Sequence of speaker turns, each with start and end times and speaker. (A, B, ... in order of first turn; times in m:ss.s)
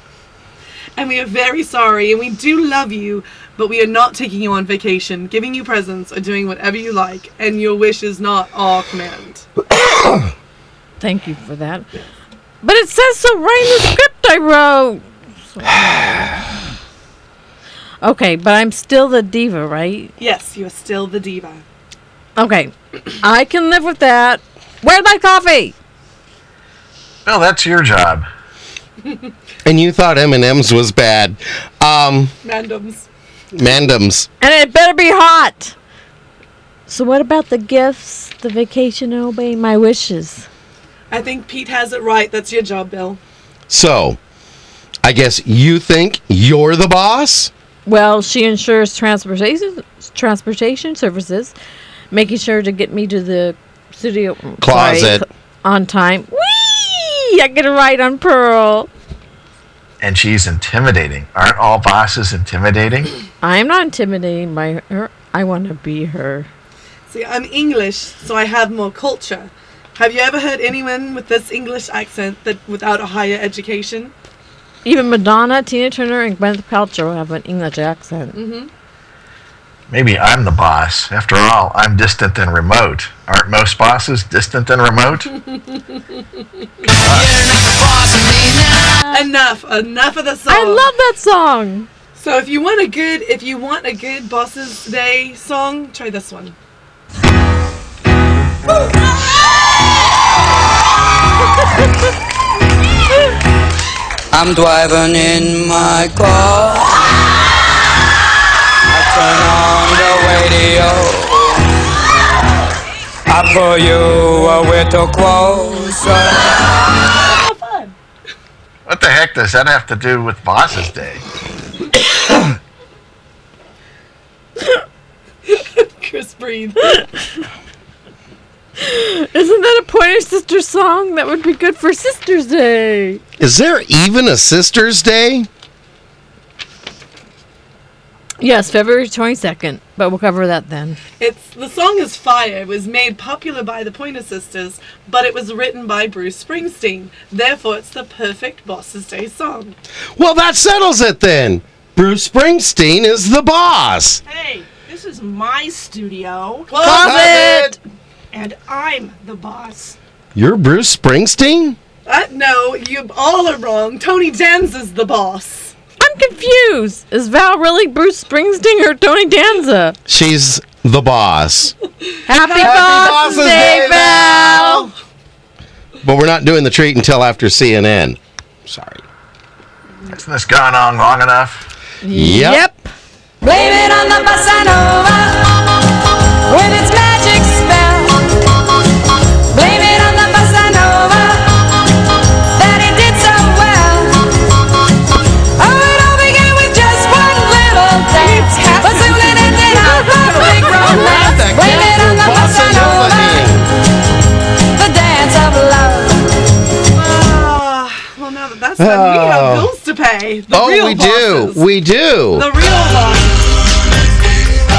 0:01.0-0:09.4 A
0:09.8-0:10.2 B
0:11.0-0:11.9 C
0:12.6-0:16.4 C
0:18.0-0:20.1 C
0:20.2-0:21.6 A
0:22.4-0:25.7 C
0:27.2-0:28.2 D
0:29.6-0:32.3 B
0:32.4-0:33.1 A
0:33.5-0:34.3 B
0:34.4-0:35.7 C
0:36.9-0:40.5 C
0:41.1-0:43.2 A
0:43.7-0:44.2 B
0:45.0-0:47.5 B
0:47.8-0:51.5 C
0:52.1-0:58.9 C
0:54.6-0:55.2 B
1:00.0-1:03.1 D
1:03.4-1:06.5 C
1:07.1-1:14.1 A
1:14.8-1:18.4 C
1:18.3-1:18.7 A
1:19.9-1:25.3 D
1:25.3-1:26.0 A
1:27.0-1:29.1 E
1:29.1-1:30.9 A
1:30.5-1:31.9 C
1:32.2-1:36.5 A
1:44.3-1:47.0 E
1:48.9-1:51.6 E
1:53.3-1:56.6 E
1:57.2-1:57.9 A
1:58.8-2:01.2 D
2:05.5-2:07.0 A
2:08.8-2:13.2 C
2:13.4-2:15.5 B
2:18.4-2:21.0 C
2:21.2-2:29.8 A
2:30.2-2:34.2 B
2:34.2-2:36.8 F
2:36.7-2:37.6 A
2:36.8-2:37.8 B
2:36.8-2:37.8 C
2:38.3-2:40.0 F
2:40.3-2:41.8 B
2:42.0-2:45.7 A
2:46.0-2:50.0 C
2:50.1-2:51.7 B
2:52.3-2:54.9 C
2:52.3-2:54.7 A
2:52.5-2:54.9 B
2:56.0-2:59.0 B
3:00.1-3:01.7 D
3:02.0-3:02.9 C
3:02.1-3:02.6 B
3:03.4-3:05.6 G
3:06.5-3:08.4 G
3:09.5-3:11.7 G
3:12.5-3:14.4 G
3:15.6-3:23.5 G
3:18.2-3:21.3 A
3:20.4-3:20.9 C
3:20.8-3:23.7 B
3:24.7-3:26.3 G
3:26.9-3:31.6 A
3:28.8-3:29.7 B
3:30.5-3:32.5 B
3:32.3-3:33.4 A